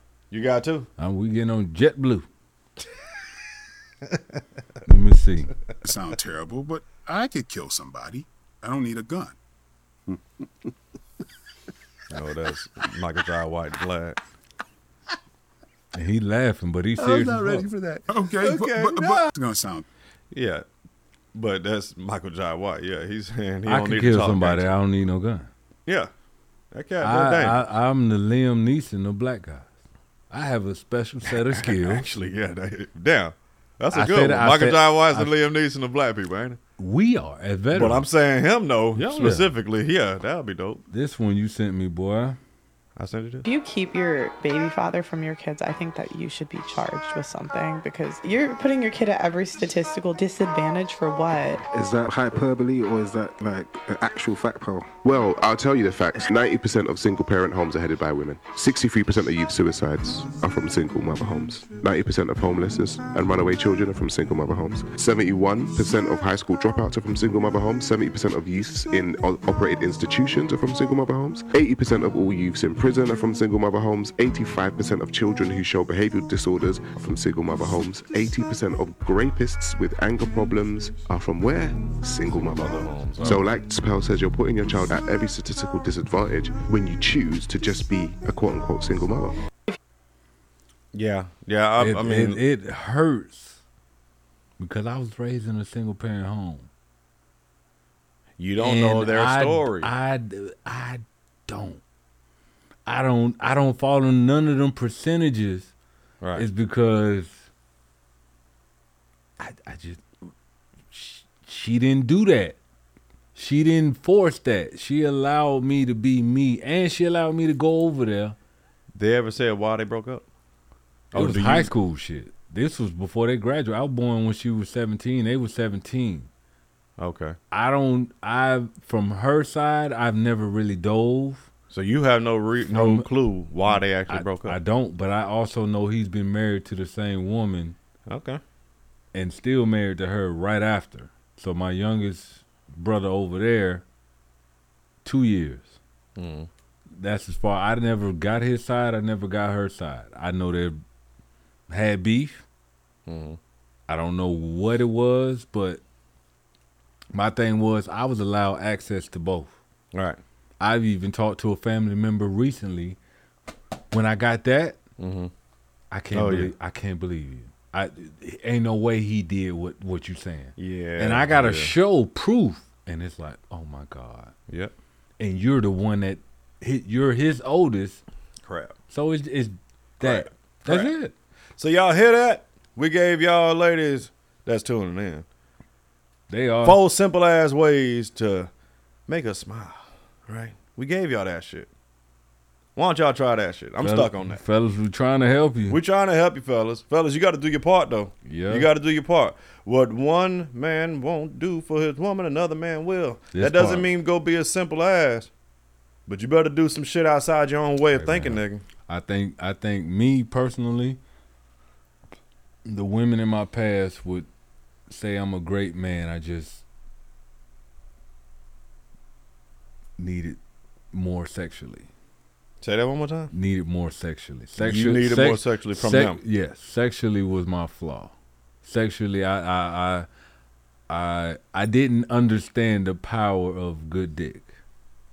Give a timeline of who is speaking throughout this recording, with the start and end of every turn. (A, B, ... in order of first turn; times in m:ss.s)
0:00.3-0:00.9 A
0:01.0-0:02.2 B
0:04.8-0:05.5 B
0:05.8-0:09.3 C
0:12.1-0:14.2 A
0:15.9-0:17.7 B
0:17.0-0:19.8 C
0:18.4-0:19.3 A
0:20.3-0:20.6 A
0:21.3-0:24.7 A
0:23.6-0:25.5 B
0:25.8-0:26.1 A
0:26.7-0:27.6 A
0:27.0-0:29.7 B
0:30.3-0:32.1 B
0:31.2-0:36.6 A
0:33.9-0:35.3 B
0:36.8-0:38.0 B
0:37.7-0:40.8 A
0:38.9-0:39.5 B
0:40.9-0:42.4 B
0:43.0-0:43.4 A
0:43.4-0:51.6 D
0:51.7-0:54.9 E
0:54.9-1:29.4 F
1:22.6-1:23.5 A
1:30.9-1:32.4 A
1:31.8-1:33.6 B
1:34.6-1:36.7 B
1:38.4-1:39.9 A
1:38.6-1:41.8 B
1:42.8-1:45.7 B
1:46.2-1:46.4 A
1:46.4-1:47.4 B
1:49.4-1:50.0 B
1:50.9-1:52.6 B
1:53.3-1:58.4 B
1:58.9-2:00.2 A
2:01.1-2:01.7 A
2:01.1-2:06.3 B
2:07.0-2:07.4 A
2:07.5-2:11.5 B
2:11.7-2:14.6 A
2:12.6-2:13.1 B
2:13.7-2:17.8 B
2:18.1-2:18.4 A
2:19.1-2:23.8 B
2:25.0-2:25.8 B
2:26.2-2:26.5 A
2:26.9-2:30.8 B
2:31.7-2:32.4 B
2:33.0-2:33.4 A
2:33.9-2:35.8 B
2:37.1-2:39.6 B
2:39.9-2:40.2 A
2:40.6-2:43.0 B
2:43.9-2:44.8 B
2:45.0-2:45.3 A
2:45.9-2:54.3 B
2:46.1-2:46.5 A
2:50.6-2:51.7 A
2:55.2-2:58.0 B
2:58.4-2:58.8 A
2:58.9-3:01.1 B
3:00.0-3:00.9 A
3:01.6-3:05.2 A
3:06.3-3:06.8 B
3:06.6-3:08.5 A
3:09.1-3:11.7 A
3:12.8-3:14.4 A
3:13.8-3:15.8 B
3:15.7-3:25.3 A
3:18.2-3:18.7 B
3:23.3-3:23.9 B
3:26.1-3:28.6 A
3:28.0-3:31.0 B
3:32.6-3:34.3 B
3:34.9-3:36.6 B
3:40.0-3:40.4 B
3:40.9-3:41.9 B
3:42.6-3:43.3 A
3:43.3-3:48.1 B
3:44.6-3:46.2 A
3:48.6-3:50.1 B
3:50.9-3:54.5 B